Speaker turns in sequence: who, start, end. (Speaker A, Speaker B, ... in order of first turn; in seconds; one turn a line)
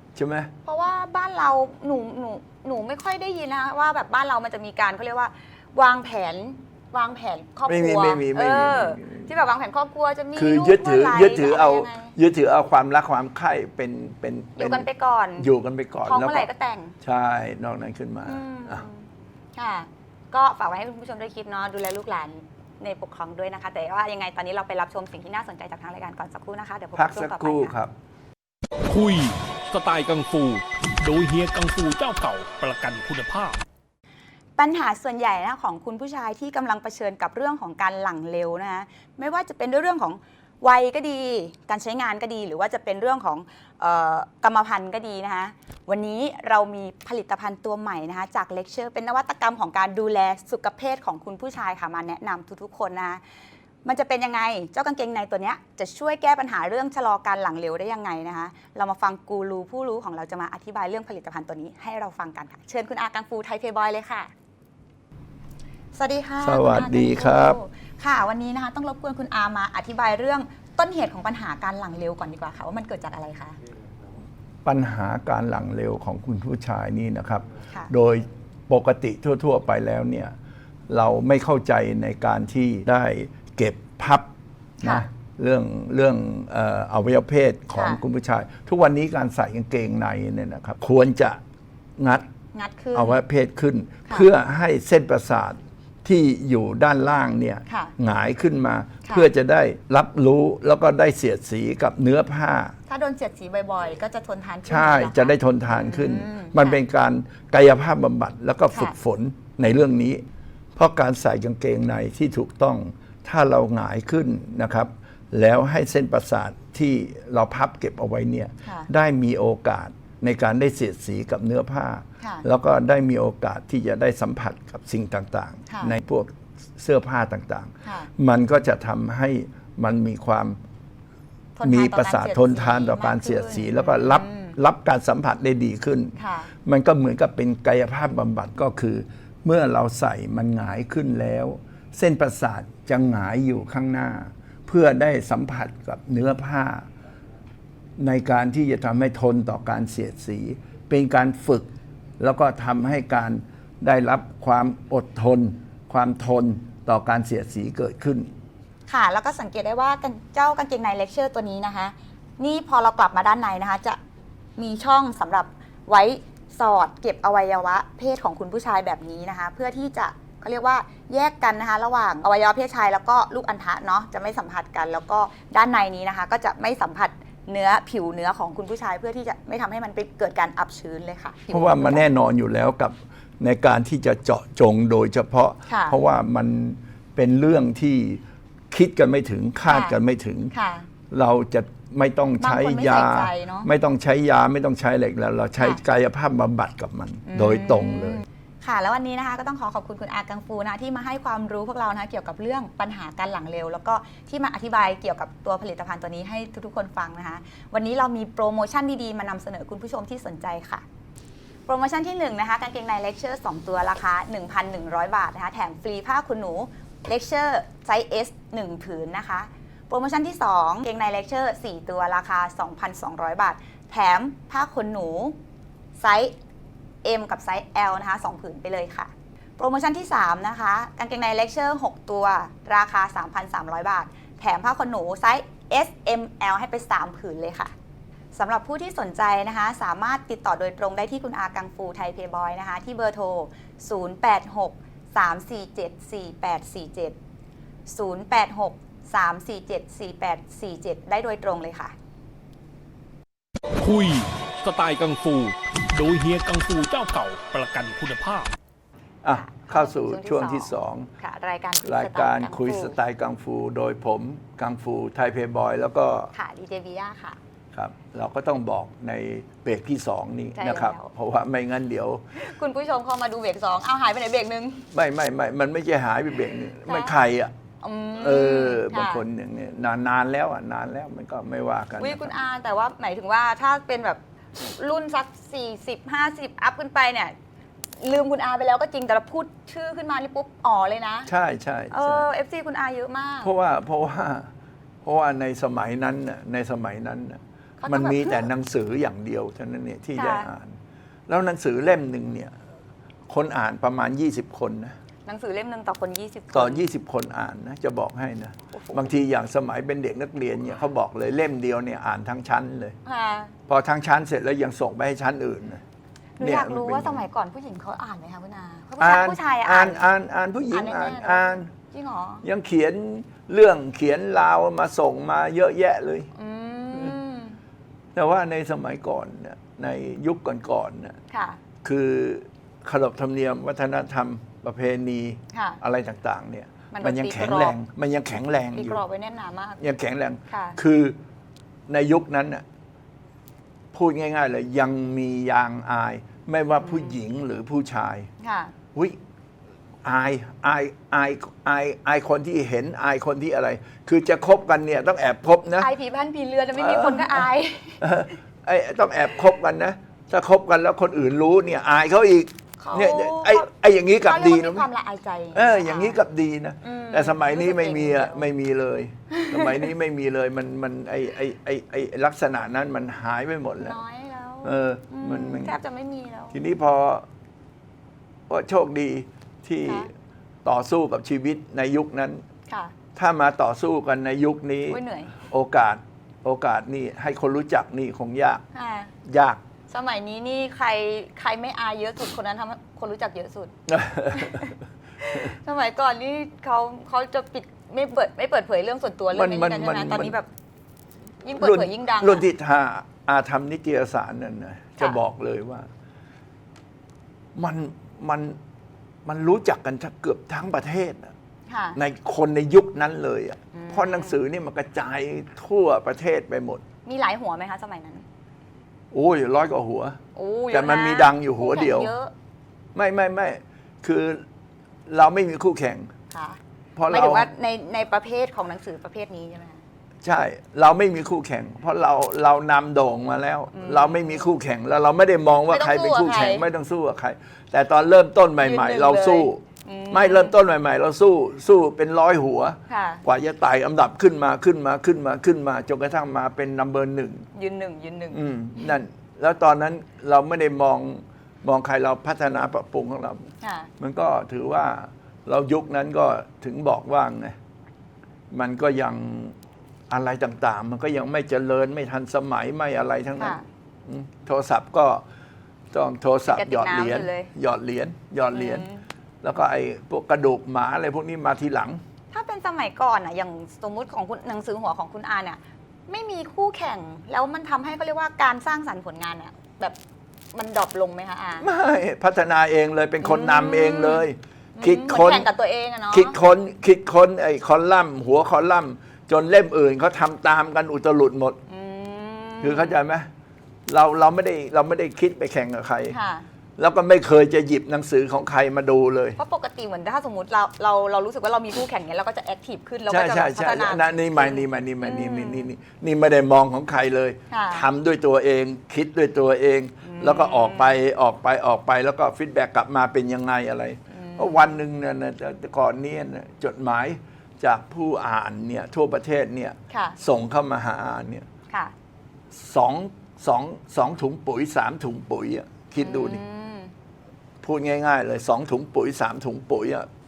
Speaker A: 0.1-0.5
Speaker B: 0.6-12.2
Speaker A: 7.7-9.3
Speaker A: 10.3-14.9
Speaker B: 14.6-15.5
Speaker A: 15.4-16.5
Speaker B: 16.0-16.9
Speaker A: 17.0-18.8
Speaker B: 18.2-27.8
Speaker A: 26.9-27.9
Speaker C: 28.9-33.6
Speaker B: 34.6-53.2
Speaker B: 53.8-64.3
Speaker B: 65.9-73.6
Speaker A: 66.4-67.6
Speaker A: 74.6-80.3
Speaker A: 80.9-84.3
Speaker A: 84.8-91.4
Speaker B: 87.7-88.0
Speaker A: 92.0-92.3
Speaker B: 92.5-93.2
Speaker A: 92.9-102.7
Speaker B: 97.7-97.9
Speaker B: 102.9-106.8
Speaker A: 104.7-110.2
Speaker A: 110.8-130.6
Speaker B: 118.6-118.9
Speaker B: 125.7-125.9
Speaker B: 127.8-128.1
Speaker B: 131.6-134.6
Speaker A: 131.6-146.9
Speaker B: 136.2-136.5
Speaker A: 148.0-158.3
Speaker B: 158.9-164.0
Speaker B: 164.6-182.1
Speaker A: 181.5-190.5
Speaker B: 185.7-186.0
Speaker B: 189.7-190.0
Speaker B: 190.5-190.9
Speaker A: 191.1-198.2
Speaker B: 192.4-193.7
Speaker B: 197.3-210.8
Speaker B: 211.7-225.3
Speaker B: 226.0-226.3
Speaker B: 227.0-237.7
Speaker B: 238.3-247.2
Speaker B: 247.9-251.9
Speaker C: 253.8-258.5
Speaker A: 259.2-261.1
Speaker B: 259.3-263.0
Speaker A: 261.8-266.3
Speaker B: 266.3-267.4
Speaker A: 267.7-272.2
Speaker B: 270.6-271.1
Speaker B: 272.3-274.9
Speaker A: 274.9-277.5
Speaker B: 276.8-277.1
Speaker B: 277.8-279.2
Speaker A: 278.2-282.3
Speaker B: 282.0-287.3
Speaker B: 288.0-291.3
Speaker A: 291.3-292.3
Speaker B: 291.9-293.5
Speaker A: 293.4-294.5
Speaker A: 295.0-302.5
Speaker B: 297.8-298.5
Speaker B: 300.1-300.5
Speaker A: 303.3-304.9
Speaker B: 305.2-306.8
Speaker A: 306.5-313.0
Speaker B: 308.7-309.1
Speaker B: 313.0-313.5
Speaker A: 313.7-315.8
Speaker B: 316.4-320.1
Speaker A: 316.4-317.2
Speaker A: 319.0-321.7
Speaker B: 320.7-322.4
Speaker A: 322.4-326.3
Speaker B: 326.3-327.6
Speaker A: 328.1-331.2
Speaker B: 331.3-331.6
Speaker A: 331.8-339.0
Speaker B: 335.5-335.8
Speaker B: 336.9-337.8
Speaker B: 338.7-339.8
Speaker A: 339.8-341.1
Speaker B: 340.5-340.8
Speaker A: 341.9-342.6
Speaker A: 343.9-348.3
Speaker B: 346.8-347.1
Speaker B: 348.4-348.7
Speaker A: 350.0-355.9
Speaker B: 355.8-358.1
Speaker A: 356.8-357.5
Speaker A: 358.0-364.9
Speaker B: 362.8-363.6
Speaker B: 364.2-366.2
Speaker A: 365.5-374.0
Speaker B: 366.8-368.5
Speaker B: 369.3-369.9
Speaker B: 373.8-376.6
Speaker A: 374.6-375.7
Speaker A: 376.5-377.3
Speaker A: 378.5-380.1
Speaker A: 380.6-382.4
Speaker B: 382.7-382.9
Speaker A: 383.1-388.6
Speaker B: 384.9-385.3
Speaker B: 388.7-389.1
Speaker A: 389.2-389.6
Speaker B: 389.9-393.7
Speaker A: 393.9-394.7
Speaker B: 394.3-400.5
Speaker A: 399.3-400.4
Speaker B: 401.4-402.5
Speaker A: 401.6-405.9
Speaker A: 407.5-408.6
Speaker A: 409.2-411.3
Speaker B: 411.7-412.0
Speaker A: 411.9-416.8
Speaker B: 413.7-414.4
Speaker B: 417.1-418.2
Speaker A: 419.1-420.2
Speaker B: 420.3-422.3
Speaker A: 420.7-422.1
Speaker A: 422.9-424.4
Speaker A: 425.1-426.1
Speaker B: 426.3-429.8
Speaker A: 426.9-427.5
Speaker A: 430.2-447.4
Speaker B: 433.7-434.5
Speaker B: 435.7-436.6
Speaker B: 438.6-440.5
Speaker B: 442.9-443.2
Speaker B: 447.5-448.9
Speaker A: 448.3-457.5
Speaker B: 453.6-453.9
Speaker A: 458.5-459.6
Speaker A: 460.1-465.2
Speaker B: 463.4-463.6
Speaker A: 465.9-468.9
Speaker B: 466.5-467.5
Speaker B: 468.5-469.0
Speaker A: 469.4-472.0
Speaker B: 472.3-480.0
Speaker B: 480.5-481.7
Speaker A: 481.6-485.5
Speaker B: 483.2-484.2
Speaker B: 484.8-486.4
Speaker A: 486.1-491.6
Speaker B: 491.7-493.0
Speaker A: 492.6-493.3
Speaker A: 493.9-496.1
Speaker B: 496.1-496.5
Speaker A: 496.8-499.4
Speaker B: 499.4-505.7
Speaker A: 503.1-521.5
Speaker B: 507.5-507.9
Speaker B: 510.0-510.9
Speaker B: 514.1-514.7
Speaker B: 519.9-520.2
Speaker A: 522.5-526.4
Speaker B: 526.0-526.9
Speaker A: 527.6-530.1